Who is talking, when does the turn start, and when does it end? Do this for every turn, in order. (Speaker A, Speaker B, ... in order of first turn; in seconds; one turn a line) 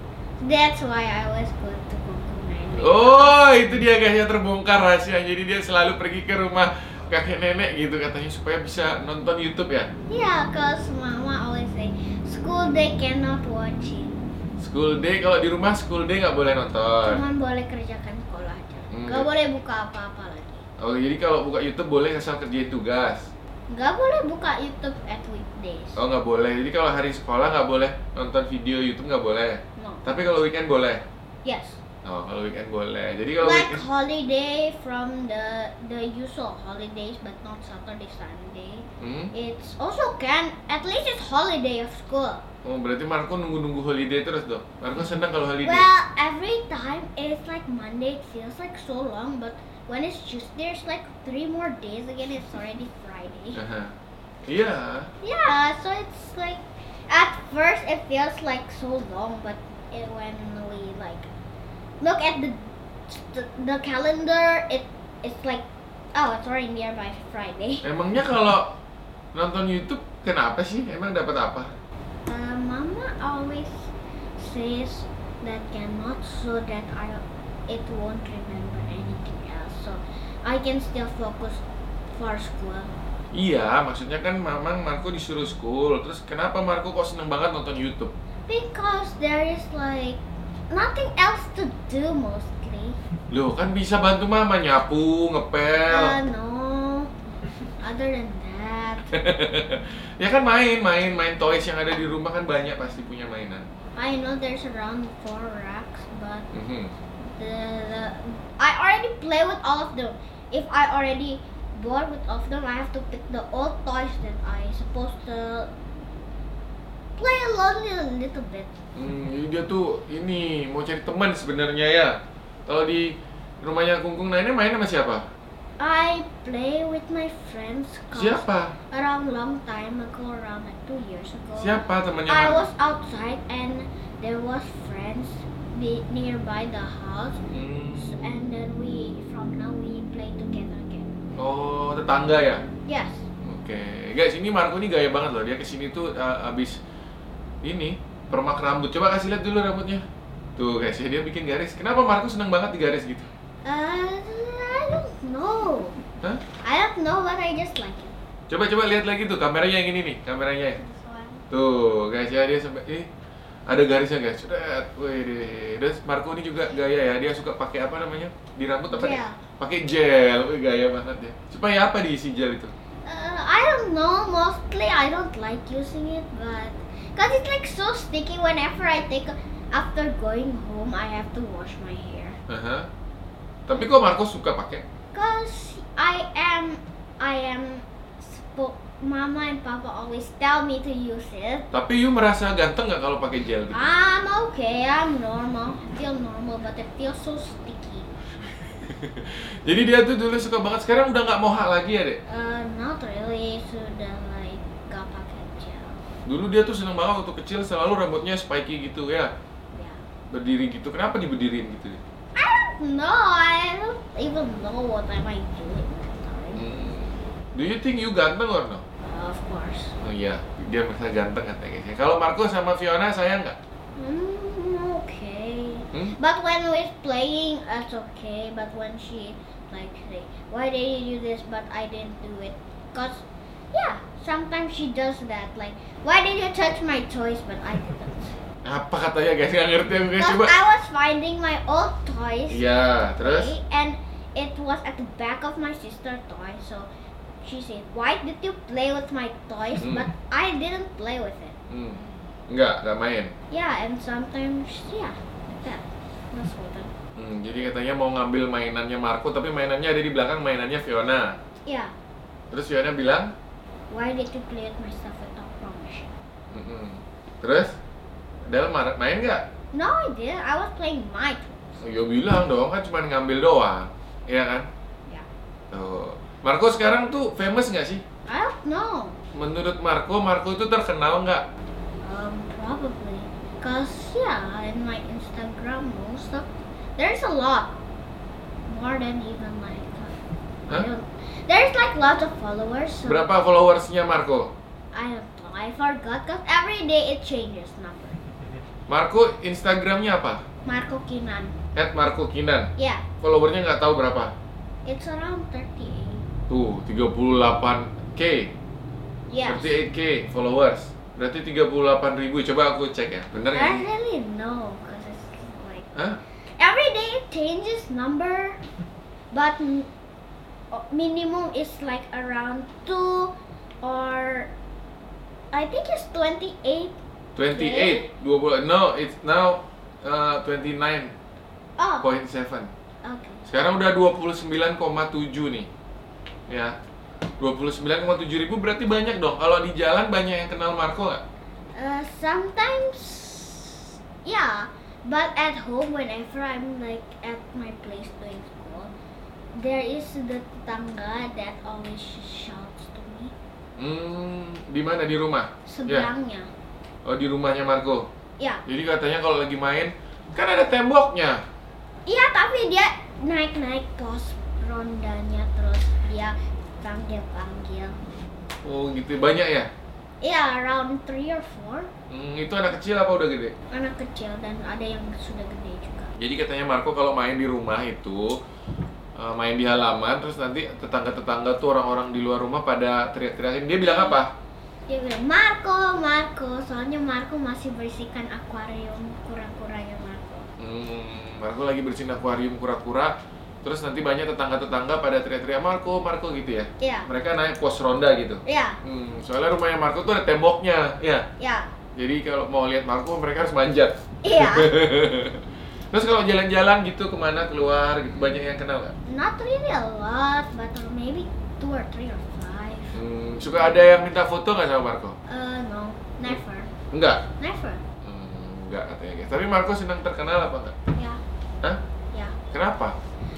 Speaker A: 0.4-3.4
Speaker B: 2.8-9.9
Speaker A: 10.1-14.2
Speaker B: 14.6-17.2
Speaker A: 17.0-20.6
Speaker B: 18.9-19.3
Speaker B: 20.8-23.3
Speaker A: 23.7-26.0
Speaker B: 26.0-31.0
Speaker A: 29.8-30.0
Speaker A: 31.4-31.8
Speaker B: 32.0-33.8
Speaker A: 33.4-42.4
Speaker B: 39.0-39.3
Speaker B: 42.6-45.9
Speaker A: 45.6-53.6
Speaker B: 53.5-53.9
Speaker B: 54.5-55.1
Speaker A: 55.2-61.3
Speaker A: 62.0-67.9
Speaker B: 67.8-68.8
Speaker B: 69.3-71.7
Speaker A: 72.3-81.6
Speaker A: 82.2-83.0
Speaker B: 83.3-88.1
Speaker A: 88.5-93.0
Speaker B: 93.3-96.2
Speaker A: 95.9-97.1
Speaker A: 97.8-99.1
Speaker B: 99.1-103.7
Speaker A: 104.0-106.5
Speaker B: 106.5-106.9
Speaker A: 107.2-115.7
Speaker A: 117.2-118.8
Speaker B: 119.0-125.3
Speaker A: 125.8-137.4
Speaker B: 128.1-128.8
Speaker B: 131.6-132.7
Speaker B: 137.5-138.1
Speaker A: 137.9-141.1
Speaker B: 141.4-142.7
Speaker A: 142.9-143.3
Speaker B: 143.4-146.8
Speaker B: 147.6-150.0
Speaker B: 150.6-153.3
Speaker A: 153.7-156.0
Speaker A: 156.6-158.2
Speaker B: 158.5-160.8
Speaker A: 160.8-161.4
Speaker B: 161.5-163.1
Speaker B: 163.7-172.7
Speaker A: 168.9-169.4
Speaker A: 173.1-182.4
Speaker B: 182.5-182.9
Speaker B: 183.7-184.8
Speaker A: 185.1-191.7
Speaker B: 191.7-193.9
Speaker A: 193.7-198.1
Speaker B: 198.8-202.2
Speaker A: 202.3-206.0
Speaker B: 206.3-209.3
Speaker A: 209.7-210.0
Speaker B: 210.3-212.0
Speaker A: 212.3-216.7
Speaker B: 216.5-218.8
Speaker A: 219.0-220.0
Speaker B: 220.0-223.6
Speaker A: 224.0-238.4
Speaker B: 238.6-240.6
Speaker A: 240.2-246.9
Speaker B: 242.5-243.5
Speaker A: 247.4-251.6
Speaker B: 249.8-250.1
Speaker B: 251.7-253.3
Speaker A: 253.5-256.9
Speaker B: 257.2-261.4
Speaker A: 261.7-261.9
Speaker B: 262.5-263.3
Speaker A: 263.9-266.1
Speaker B: 266.5-267.8
Speaker B: 268.5-269.5
Speaker A: 269.7-271.8
Speaker B: 271.8-274.7
Speaker B: 275.7-278.0
Speaker A: 278.3-279.2
Speaker B: 279.3-281.5
Speaker A: 282.0-287.7
Speaker A: 288.7-290.1
Speaker A: 290.7-293.2
Speaker B: 293.1-294.5
Speaker A: 294.9-298.2
Speaker B: 298.9-300.4
Speaker A: 300.6-301.6
Speaker B: 301.8-304.3
Speaker A: 302.8-303.1
Speaker A: 304.9-306.3
Speaker B: 306.5-308.5
Speaker A: 309.3-309.8
Speaker B: 309.5-313.8
Speaker A: 313.5-315.9
Speaker A: 316.6-318.6
Speaker A: 319.3-319.9
Speaker A: 320.7-324.5
Speaker A: 325.5-327.0
Speaker B: 327.4-331.1
Speaker A: 327.5-328.1
Speaker A: 331.8-332.1
Speaker B: 332.0-332.7
Speaker A: 333.0-333.4
Speaker B: 333.5-335.7
Speaker B: 336.5-336.8
Speaker B: 337.4-341.2
Speaker A: 341.8-348.9
Speaker A: 349.6-353.3
Speaker B: 353.8-356.1
Speaker A: 355.7-356.5
Speaker B: 357.1-358.1
Speaker B: 358.6-361.4
Speaker A: 362.1-368.1
Speaker B: 368.6-369.7
Speaker A: 370.2-371.9
Speaker B: 372.1-373.6
Speaker A: 373.7-376.1
Speaker B: 376.2-378.4
Speaker B: 379.2-384.3
Speaker A: 383.8-384.2
Speaker A: 384.9-390.5
Speaker B: 390.6-401.3
Speaker A: 396.8-397.1
Speaker A: 398.4-398.8
Speaker A: 401.4-401.7
Speaker B: 401.9-408.9
Speaker A: 404.2-404.7
Speaker A: 409.1-413.0
Speaker B: 412.9-415.2
Speaker A: 415.3-416.7
Speaker B: 416.9-417.2
Speaker A: 417.4-417.8
Speaker B: 418.0-420.8
Speaker A: 420.9-421.2
Speaker B: 422.5-423.0